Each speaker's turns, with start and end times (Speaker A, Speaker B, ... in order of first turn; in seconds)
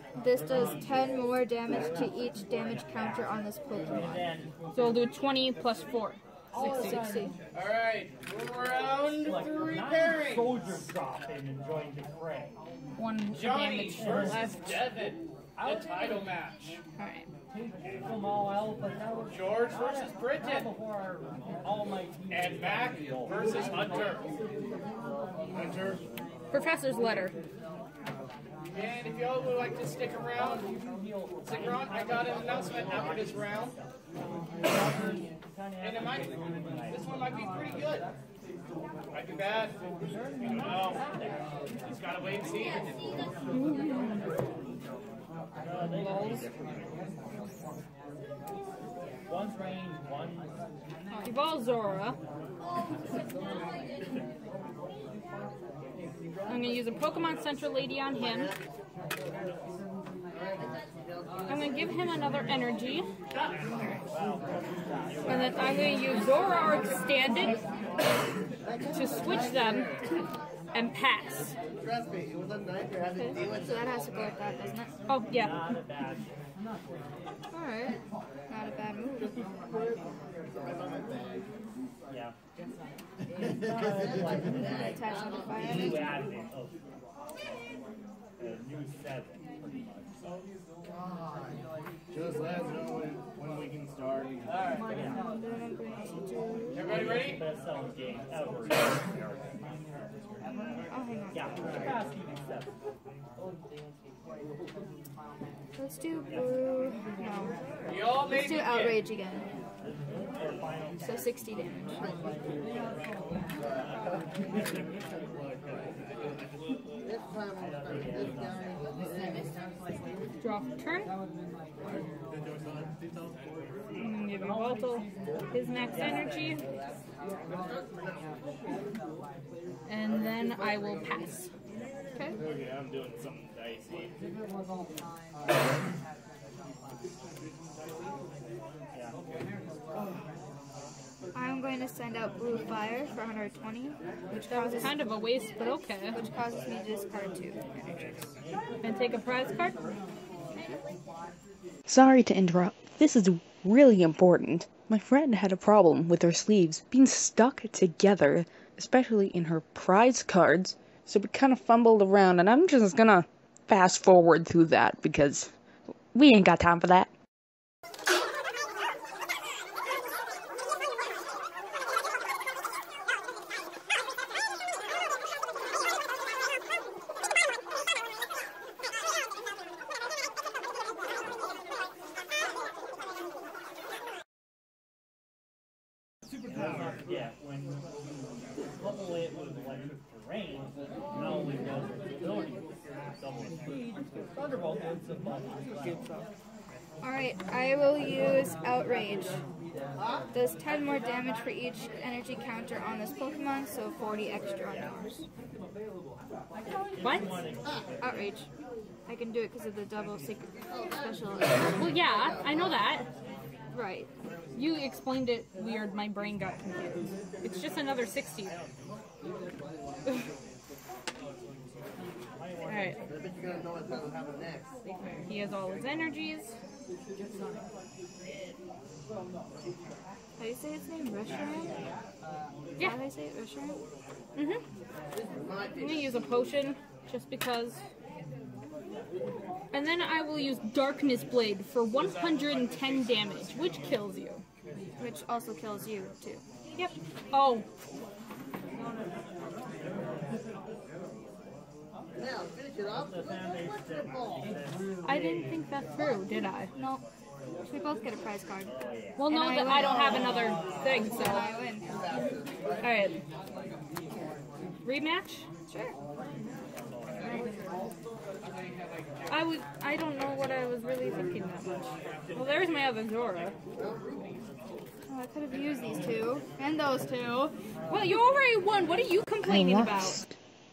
Speaker A: 0.1-4.2, 6.6-7.2, 73.2-74.9, 77.5-79.4, 84.6-86.2, 94.9-97.0, 100.4-102.0, 105.8-109.5, 111.0-112.0, 141.3-148.3, 197.0-199.4, 200.3-205.2, 208.0-208.5, 209.1-211.9, 213.7-214.1, 230.4-231.8, 232.8-233.8, 245.0-246.4, 256.3-257.0, 257.7-260.3, 261.0-262.0, 265.7-265.9, 267.1-267.8, 275.1-277.5
Speaker B: 0.2-3.4, 3.9-4.5, 6.5-7.3, 9.2-12.6, 13.9-14.5, 15.6-16.3, 17.5-23.8, 30.5-33.9, 34.6-37.1, 40.0-41.4, 45.6-47.0, 49.3-50.5, 64.1-66.5, 75.3-76.2, 83.4-84.9, 85.5-86.7, 88.4-90.2, 94.8-95.2, 96.8-99.5, 101.3-102.7, 106.3-106.6, 109.8-111.3, 117.9-118.4, 125.9-126.6, 186.9-187.8, 188.8-196.0, 206.6-208.4, 222.4-223.2, 248.8-249.2, 249.8-250.6, 252.9-255.6, 258.7-259.3, 267.0-267.4
Speaker C: 4.7-7.3, 13.0-14.8, 17.0-17.3, 26.5-27.4, 43.5-44.2, 46.0-46.4, 51.2-52.2, 56.5-58.5, 61.5-63.1, 63.7-64.0, 65.3-67.6, 68.9-69.9, 70.7-71.5, 75.1-75.5, 120.4-121.1, 124.0-126.6, 129.9-131.5, 144.3-146.2, 148.8-149.8, 207.0-207.4, 211.7-213.1, 214.5-218.5, 222.7-223.0, 224.8-226.5, 234.4-234.6, 235.8-237.8, 239.7-244.4, 246.8-247.7, 255.0-256.7, 259.2-261.5, 262.8-263.2, 264.8-265.5, 269.3-273.6, 277.9-280.2
Speaker D: 7.5-10.5, 13.3-16.8, 19.3-20.7, 22.3-24.2, 25.5-26.0, 28.7-30.7, 31.4-33.8, 35.8-36.3, 36.9-38.1, 39.1-39.8, 40.4-41.0, 41.9-42.9, 93.1-94.6, 96.8-97.4, 107.9-109.1, 132.4-134.1, 242.0-243.9, 268.5-269.2
Speaker E: 68.8-69.9, 72.8-73.8, 80.7-81.4, 83.9-86.1, 117.3-119.4, 127.5-128.2, 211.4-212.2, 223.6-224.0, 235.4-236.2, 260.3-261.4, 262.1-262.7
Speaker F: 151.9-165.5, 166.1-167.1, 279.5-280.3